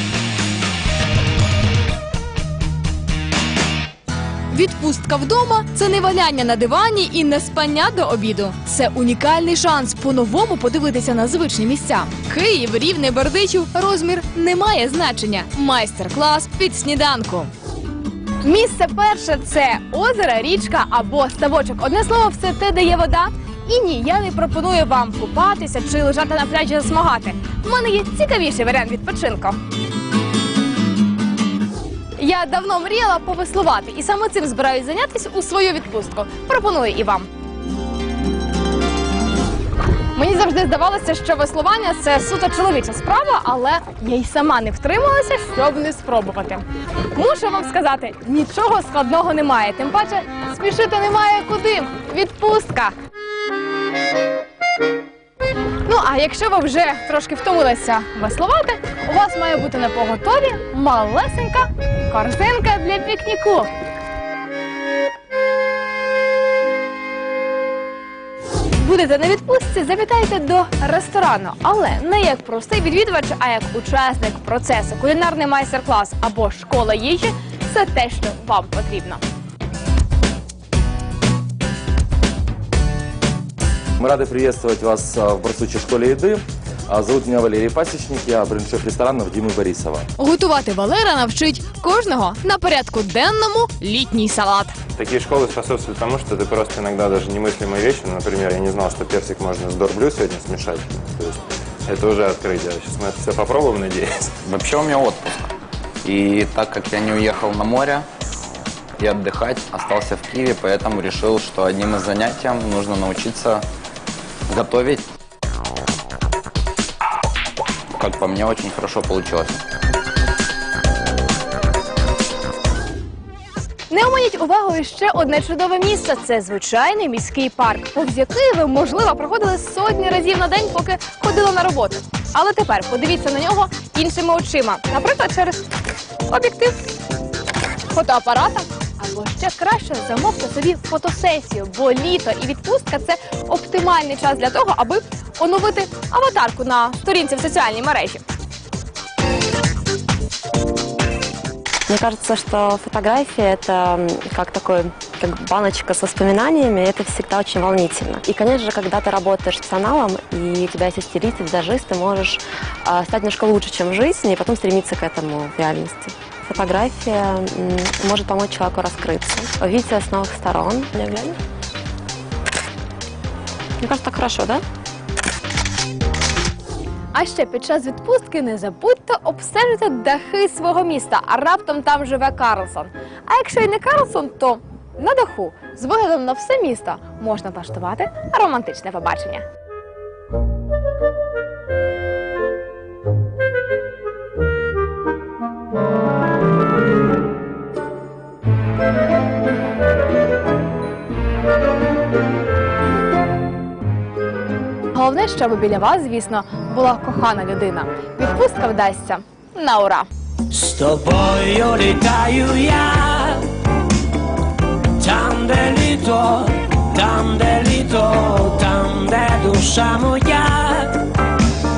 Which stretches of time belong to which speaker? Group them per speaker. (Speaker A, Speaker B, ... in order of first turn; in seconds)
Speaker A: 4.5-17.5, 18.4-29.6, 32.2-37.3, 40.1-52.9, 55.9-63.7, 68.8-79.2, 90.2-94.8, 123.9-135.7, 136.3-136.8, 137.9-148.2, 177.1-189.4, 204.9-210.1
Speaker B: 84.0-90.1
Speaker C: 95.0-104.3
Speaker D: 104.4-105.5, 106.0-108.1, 109.0-113.7, 114.5-115.1, 118.0-119.6
Speaker E: 151.9-171.4, 173.8-174.6
Speaker F: 210.5-213.4, 215.0-221.0